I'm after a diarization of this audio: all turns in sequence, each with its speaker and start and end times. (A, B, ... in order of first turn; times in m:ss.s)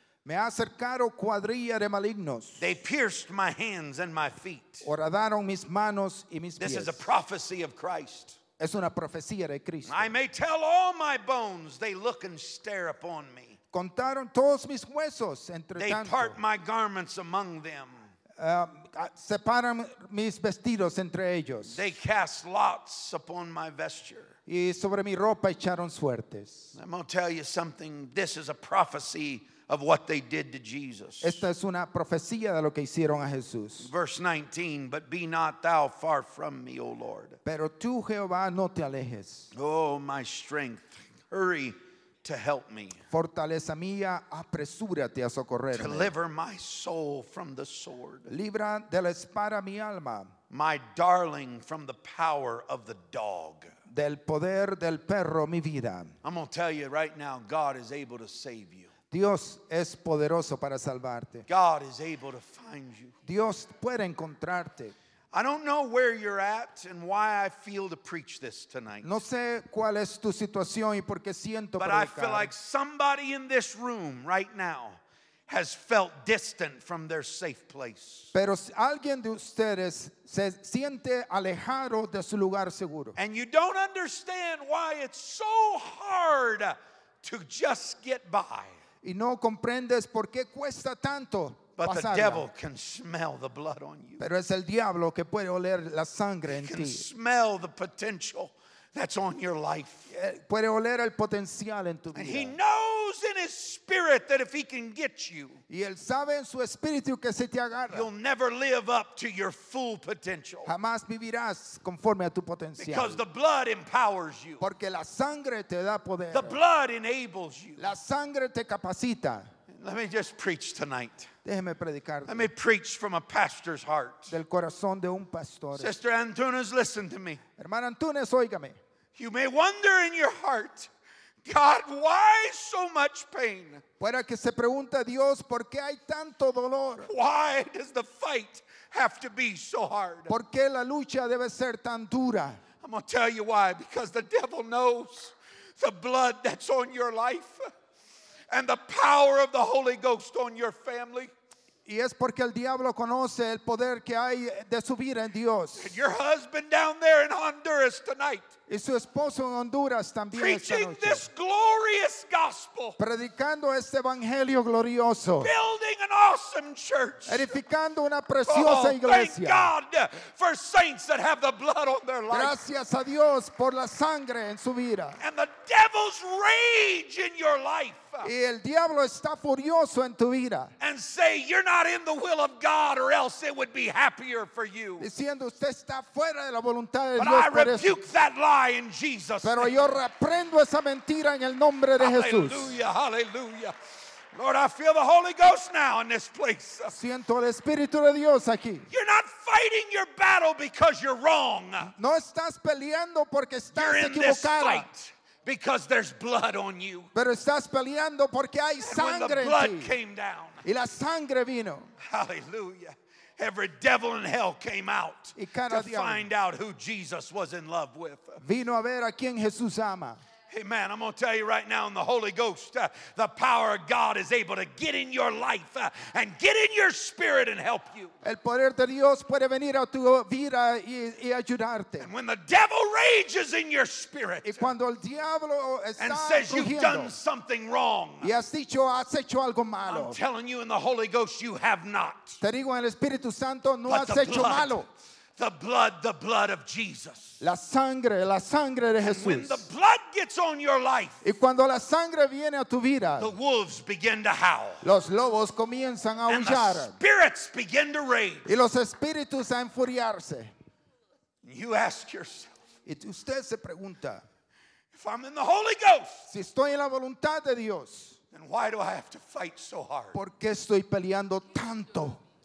0:00.2-0:02.6 A
0:02.6-0:04.8 B
0:04.8-0:07.1 A
0:06.6-0:08.4 B
0:08.6-0:10.1 A
0:09.8-0:13.6 B
0:13.7-0:16.4 A
0:15.8-0:18.1 B
0:18.4-0:21.8 A
0:21.7-0:24.3 B
0:24.5-0:26.7 A
0:26.7-0:31.4 B
0:31.2-0:33.9 A
0:33.8-0:37.4 B
0:37.4-0:39.5 A
0:39.5-0:43.0 B
0:43.1-0:46.1 A
0:45.7-0:48.3 B
0:48.3-0:50.3 A
0:50.5-0:53.7 B
0:53.9-0:56.1 A
0:56.2-0:58.9 B
0:59.1-1:01.5 A
1:01.5-1:03.1 B
1:03.2-1:04.9 A
1:05.3-1:09.1 B
1:09.0-1:12.5 A
1:11.8-1:18.3 B
1:18.3-1:23.2 A
1:23.2-1:28.8 B
1:29.0-1:32.4 A
1:31.8-1:34.2 B
1:34.2-1:37.0 A
1:36.5-1:40.1 B
1:40.1-1:42.6 A
1:42.1-1:45.6 B
1:45.7-1:48.1 A
1:47.9-1:50.7 B
1:50.6-1:53.2 A
1:52.8-1:54.6 B
1:54.6-1:56.6 A
1:56.3-1:57.9 B
1:57.8-1:59.5 A
1:59.7-2:01.3 B
2:01.4-2:02.5 A
2:02.2-2:04.3 B
2:04.3-2:05.9 A
2:05.7-2:07.4 B
2:07.6-2:08.8 A
2:09.1-2:10.9 B
2:11.4-2:13.8 B
2:14.0-2:17.1 A
2:17.0-2:20.3 B
2:20.3-2:22.6 A
2:22.8-2:27.7 B
2:28.5-2:31.3 B
2:31.8-2:36.0 A
2:35.8-2:38.5 B
2:38.7-2:41.2 A
2:40.3-2:43.0 B
2:43.0-2:45.5 A
2:45.4-2:47.5 B
2:47.3-2:49.7 A
2:48.4-2:52.6 B
2:52.3-2:55.2 A
2:55.2-2:58.3 B
2:58.2-3:00.7 A
3:00.8-3:05.1 B
3:05.0-3:08.0 A
3:07.2-3:09.7 B
3:09.4-3:12.8 A
3:12.0-3:13.7 B
3:14.3-3:16.9 B
3:16.9-3:18.9 A
3:18.9-3:21.9 B
3:21.9-3:24.9 A
3:23.7-3:27.1 B
3:27.1-3:29.9 A
3:28.8-3:30.6 B
3:30.6-3:31.9 A
3:32.0-3:38.4 B
3:35.4-3:36.3 A
3:38.4-3:40.2 A
3:40.5-3:48.1 B
3:48.2-3:52.1 A
3:52.0-3:54.7 B
3:54.4-3:57.1 A
3:56.0-3:58.3 B
3:58.2-4:00.2 A
3:59.8-4:02.4 B
4:02.4-4:04.9 A
4:03.9-4:04.8 B
4:05.4-4:07.4 B
4:07.4-4:09.6 A
4:09.0-4:11.2 B
4:11.2-4:13.3 A
4:13.2-4:14.8 B
4:14.8-4:17.0 A
4:16.3-4:18.5 B
4:18.4-4:20.5 A
4:21.4-4:22.6 B
4:22.8-4:24.2 A
4:24.9-4:26.2 B
4:26.3-4:28.2 A
4:28.3-4:30.2 B
4:30.1-4:32.2 A